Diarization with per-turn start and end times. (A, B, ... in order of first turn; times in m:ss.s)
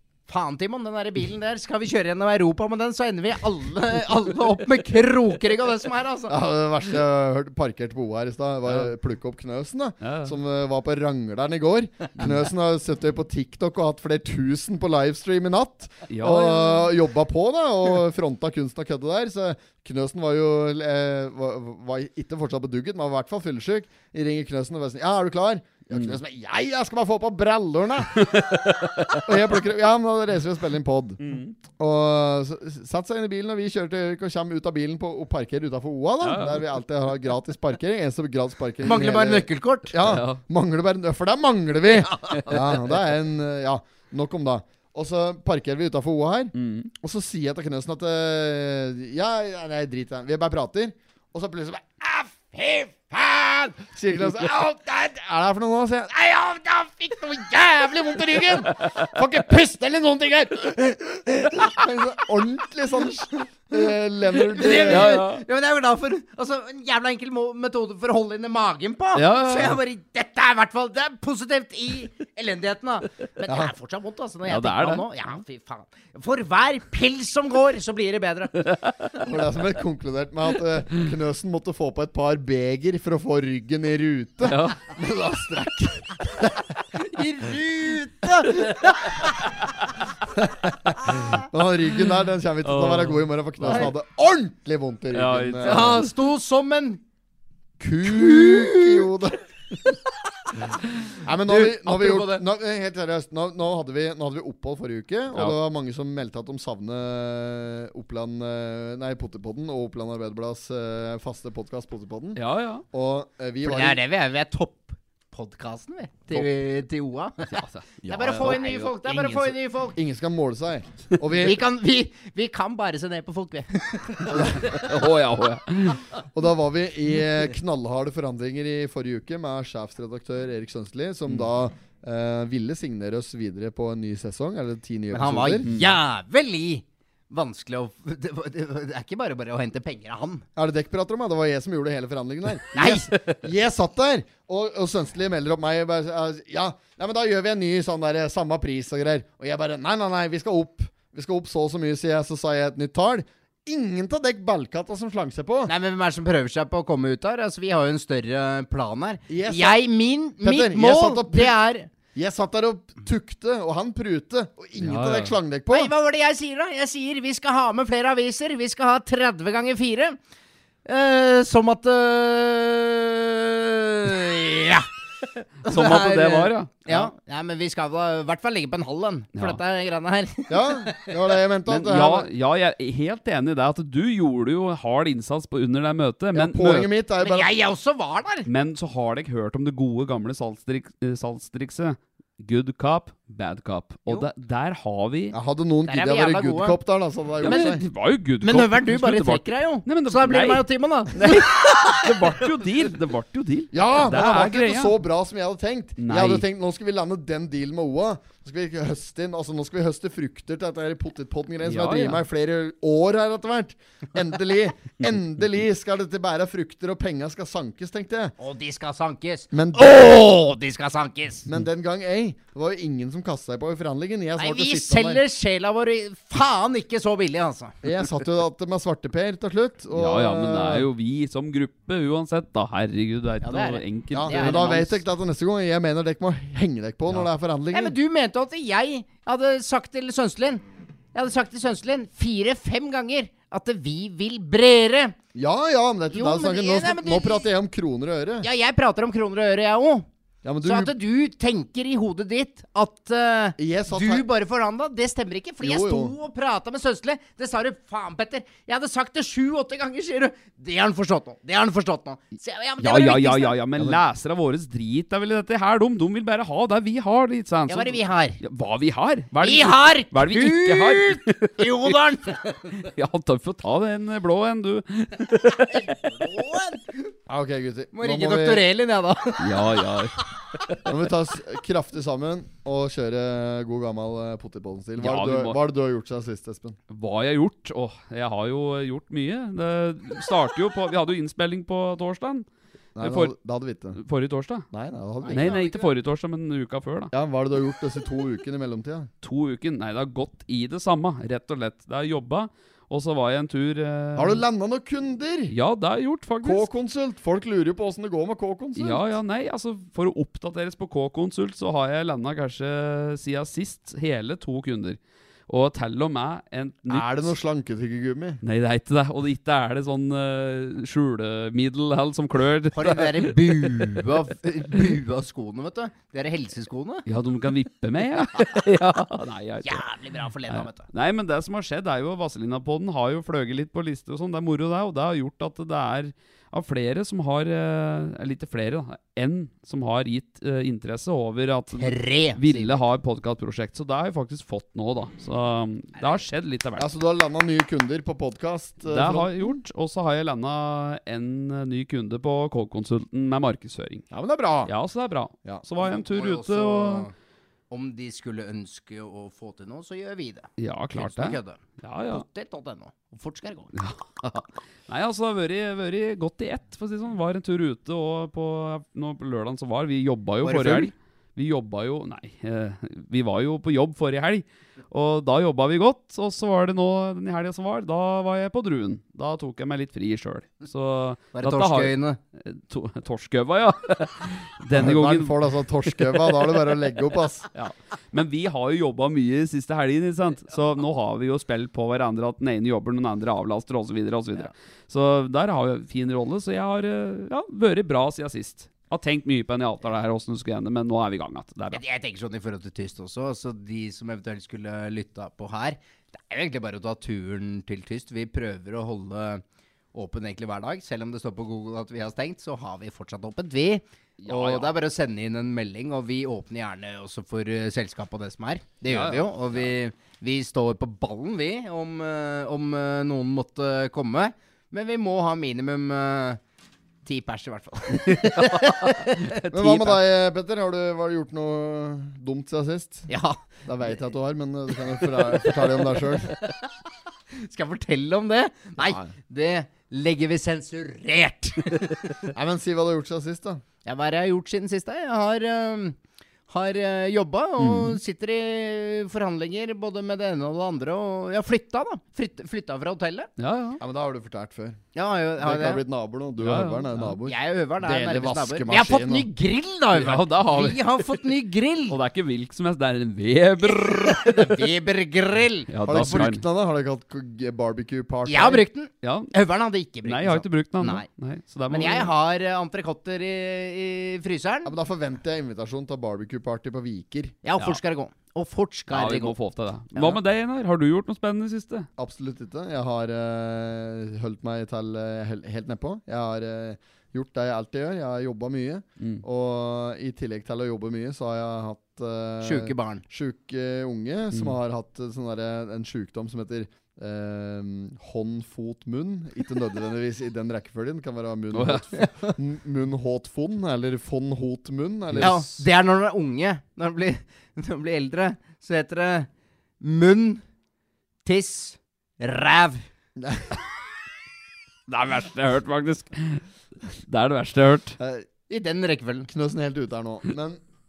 0:00.3-0:06.4 A
0:06.3-0:28.6 B
0:10.0-0:10.4 C
0:16.1-0:16.9 C
0:25.9-0:26.2 C
0:28.2-0:29.3 C
0:29.2-1:05.2 B
0:31.2-0:31.6 C
0:36.2-0:36.7 C
0:38.8-0:39.9 A
0:40.0-0:40.4 C
0:46.6-0:46.9 C
0:58.8-0:59.1 C
1:04.5-1:18.7 A
1:04.7-1:05.4 C
1:09.2-1:09.8 C
1:13.5-1:13.7 B
1:14.5-1:15.1 C
1:18.7-1:18.9 C
1:19.2-1:26.7 B
1:24.4-1:24.9 C
1:27.0-1:29.3 A
1:30.4-1:36.0 B
1:32.6-1:33.9 C
1:33.6-1:33.9 A
1:35.1-1:36.1 C
1:35.6-1:37.0 A
1:37.8-1:40.0 B
1:38.0-1:39.1 A
1:41.2-1:54.0 B
1:41.5-1:42.4 A
1:52.4-1:52.8 C
1:53.6-2:00.0 A
1:57.5-1:59.4 C
1:58.0-2:01.6 B
2:01.4-2:04.9 A
2:04.3-2:04.8 B
2:04.6-2:06.0 C
2:06.3-2:15.7 B
2:15.1-2:20.5 A
2:15.7-2:16.0 C
2:20.6-2:35.7 B
2:22.7-2:23.1 A
2:35.7-2:41.9 A
2:39.3-2:39.8 B
2:40.4-2:41.6 B
2:42.1-2:45.9 B
2:44.8-2:45.4 C
2:45.7-2:50.2 A
2:50.8-2:54.9 A
2:55.6-3:01.1 A
2:55.7-2:57.1 C
2:59.4-2:59.6 C
3:00.5-3:02.3 B
3:01.7-3:06.9 C
3:06.3-3:07.5 B
3:07.2-3:08.5 A
3:08.5-3:15.4 C
3:15.3-3:17.8 B
3:15.9-3:16.8 A
3:17.4-3:25.0 C
3:17.4-3:17.8 A
3:18.4-3:22.4 A
3:23.7-3:38.3 B
3:26.0-3:26.4 C
3:31.6-3:32.2 C
3:38.4-3:41.5 A
3:39.5-3:40.0 B
3:41.5-3:45.2 B
3:44.4-3:47.8 A
3:47.8-3:50.9 B
3:49.9-3:54.9 C
3:53.4-3:55.0 A
3:54.1-3:58.0 B
3:57.7-4:00.6 A
4:01.1-4:05.2 A
4:05.3-4:08.5 B
4:06.1-4:07.5 A
4:08.4-4:10.1 A
4:10.4-4:10.9 B
4:10.6-4:23.6 A
4:13.6-4:14.3 B
4:15.6-4:16.1 B
4:22.8-4:32.0 C
4:27.7-4:28.4 A
4:29.4-4:32.9 A
4:32.8-4:36.1 C
4:35.6-4:37.1 A
4:37.3-4:38.7 B
4:37.9-4:39.7 A
4:39.4-4:40.8 C
4:40.8-4:46.8 B
4:45.0-4:45.6 C
4:46.9-4:52.5 C
4:53.0-4:54.0 B
4:53.0-4:53.3 C
4:54.0-4:54.7 C
4:54.7-4:55.7 B
4:55.2-4:55.9 A
4:55.3-4:57.1 C
4:57.1-4:59.1 B
4:59.2-5:04.4 C
5:04.2-5:05.5 B
5:05.5-5:06.7 C
5:06.4-5:09.1 B
5:08.8-5:17.3 C
5:16.9-5:18.4 B
5:18.4-5:24.0 C
5:22.7-5:27.1 A
5:27.1-5:29.8 C
5:29.6-5:30.9 A
5:30.5-5:46.9 C
5:41.8-5:42.8 A
5:46.8-5:49.6 B
5:48.9-5:54.0 C
5:54.1-5:54.7 B
5:54.7-5:57.1 C
5:55.8-5:57.1 A
5:57.7-6:03.8 A
6:00.6-6:02.2 C
6:03.8-6:26.7 C
6:10.4-6:10.9 A
6:21.3-6:22.2 A
6:24.7-6:27.5 B
6:27.5-6:41.8 C
6:41.7-6:49.4 A
6:49.9-7:06.4 A
6:54.2-6:54.7 C
6:58.9-6:59.7 C
7:07.0-7:10.0 A
7:08.2-7:08.6 C
7:09.5-7:13.1 B
7:13.1-7:13.4 A
7:13.6-7:16.4 B
7:15.2-7:16.7 A
7:17.3-7:22.2 A
7:18.8-7:19.1 B
7:22.3-7:23.6 B
7:23.8-7:26.0 A
7:26.5-7:33.3 A
7:27.6-7:28.0 C
7:33.4-7:33.8 C
7:33.8-7:34.8 B
7:35.0-7:35.8 A
7:35.4-7:39.3 B
7:36.4-7:37.2 C
7:37.2-7:42.0 A
7:39.9-7:41.2 C
7:41.9-7:44.7 C
7:43.6-7:45.7 A
7:45.7-7:46.4 C
7:45.8-7:48.6 B
7:48.3-7:51.1 A
7:49.0-7:49.3 C
7:50.0-7:52.1 C
7:51.7-7:54.7 A
7:54.6-7:57.4 B
7:57.4-7:59.4 A
7:58.9-8:01.9 C
7:59.9-8:00.2 A
8:02.0-8:25.6 B
8:12.4-8:13.0 A
8:21.5-8:22.0 C
8:25.1-8:25.4 C
8:25.2-8:29.3 A
8:29.8-8:30.4 A
8:31.2-8:32.8 A
8:33.2-8:33.6 B
8:34.9-8:38.0 C
8:38.0-8:38.3 B
8:38.5-8:39.3 A
8:39.3-8:40.6 B